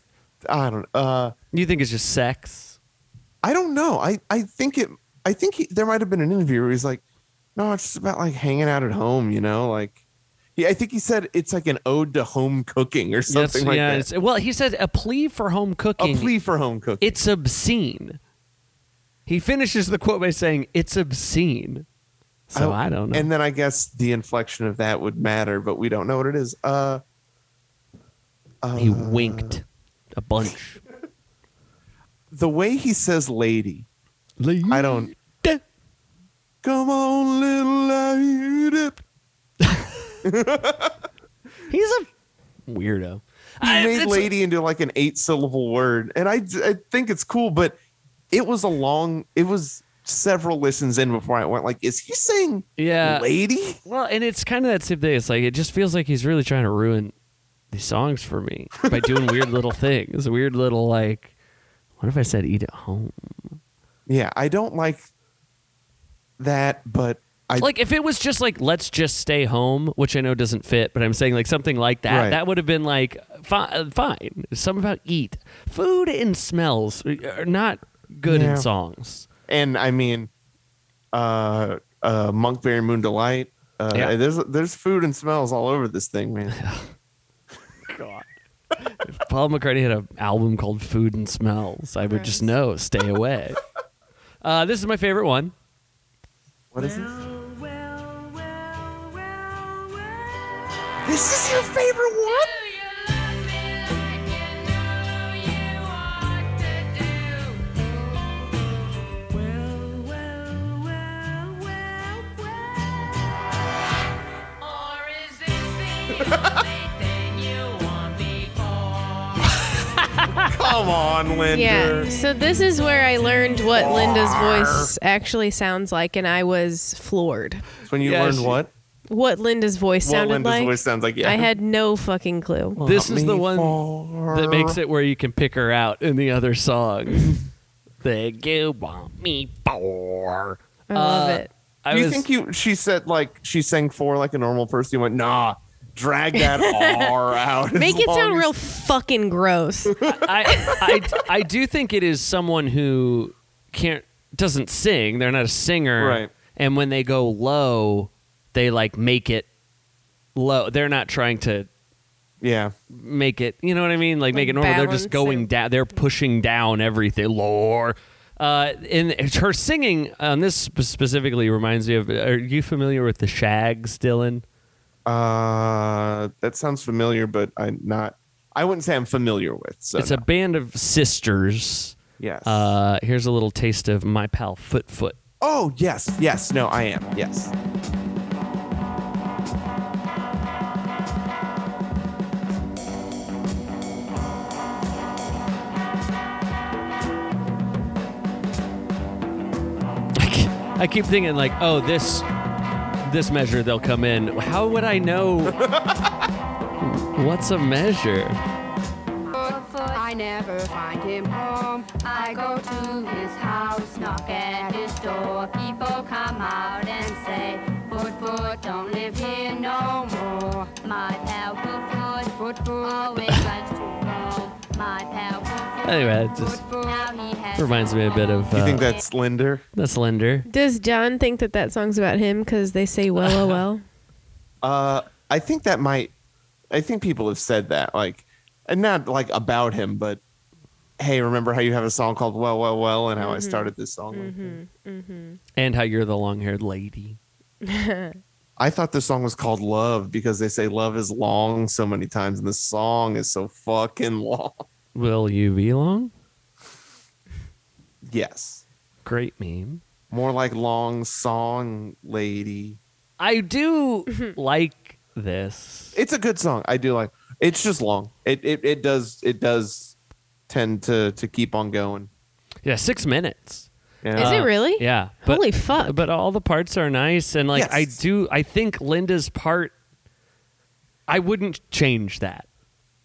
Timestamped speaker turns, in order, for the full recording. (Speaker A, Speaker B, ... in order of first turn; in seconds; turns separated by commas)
Speaker A: 0.4-1.3, Speaker B: 1.5-2.8, Speaker A: 3.4-7.0, Speaker A: 7.5-10.0, Speaker A: 10.6-14.1, Speaker B: 13.3-16.3, Speaker A: 16.0-17.1, Speaker B: 17.0-18.2, Speaker B: 19.3-21.9, Speaker B: 22.5-23.3, Speaker A: 22.5-27.0, Speaker A: 28.6-29.6, Speaker B: 28.8-30.8, Speaker A: 32.3-33.9, Speaker B: 34.4-35.6, Speaker A: 34.7-35.1, Speaker A: 36.6-39.0, Speaker B: 39.6-40.1, Speaker A: 40.2-41.0, Speaker B: 41.7-42.1, Speaker B: 42.7-44.3, Speaker A: 43.6-47.8, Speaker A: 48.3-53.8, Speaker B: 52.8-53.3, Speaker B: 53.8-57.1, Speaker B: 57.7-61.3, Speaker A: 58.9-59.4, Speaker B: 62.0-63.6, Speaker A: 64.1-65.1, Speaker A: 66.4-67.7, Speaker B: 67.6-79.3, Speaker A: 72.1-72.4, Speaker A: 78.2-78.7, Speaker A: 79.5-80.3, Speaker A: 81.1-86.6, Speaker B: 86.5-86.9, Speaker B: 87.9-88.3, Speaker B: 88.9-93.6, Speaker C: 92.1-92.5, Speaker B: 94.4-95.5, Speaker A: 96.7-97.1, Speaker D: 96.8-100.7, Speaker A: 101.0-102.5, Speaker E: 102.2-107.8, Speaker D: 109.3-112.9, Speaker E: 114.6-119.7, Speaker B: 119.8-120.5, Speaker A: 120.4-122.1, Speaker C: 121.5-127.6, Speaker A: 123.7-124.9, Speaker A: 127.8-128.7, Speaker B: 128.0-128.6, Speaker C: 129.1-132.8, Speaker A: 130.0-131.5, Speaker A: 132.8-134.8, Speaker B: 132.8-137.4, Speaker B: 138.0-142.2, Speaker C: 140.9-141.5, Speaker A: 141.9-148.5, Speaker C: 146.4-147.1, Speaker C: 147.7-150.9, Speaker A: 149.8-150.2, Speaker B: 150.0-159.5, Speaker A: 156.0-156.3, Speaker B: 160.3-161.7, Speaker A: 162.4-162.7, Speaker B: 162.9-174.4, Speaker C: 164.3-165.5, Speaker A: 175.1-180.2, Speaker B: 179.9-185.2, Speaker A: 182.2-182.8, Speaker A: 185.4-187.5, Speaker B: 200.2-202.3, Speaker B: 203.0-205.6, Speaker A: 205.4-206.3, Speaker B: 206.8-208.4, Speaker E: 209.3-228.3, Speaker B: 225.8-226.6, Speaker B: 227.6-228.9, Speaker A: 228.5-229.6, Speaker B: 229.8-230.5, Speaker C: 230.5-233.8, Speaker B: 233.2-233.6, Speaker A: 234.6-236.1, Speaker A: 236.7-240.2, Speaker A: 241.0-244.6, Speaker C: 243.2-245.4, Speaker B: 245.6-247.2, Speaker C: 247.6-248.2, Speaker A: 248.6-254.7, Speaker B: 254.9-256.1, Speaker A: 258.0-258.6, Speaker B: 259.0-259.8, Speaker A: 260.1-262.8, Speaker B: 263.2-265.9, Speaker A: 265.9-269.9, Speaker A: 270.5-272.1, Speaker B: 272.6-279.7, Speaker A: 274.0-274.4, Speaker C: 274.1-276.0, Speaker A: 277.5-278.0, Speaker B: 281.1-282.5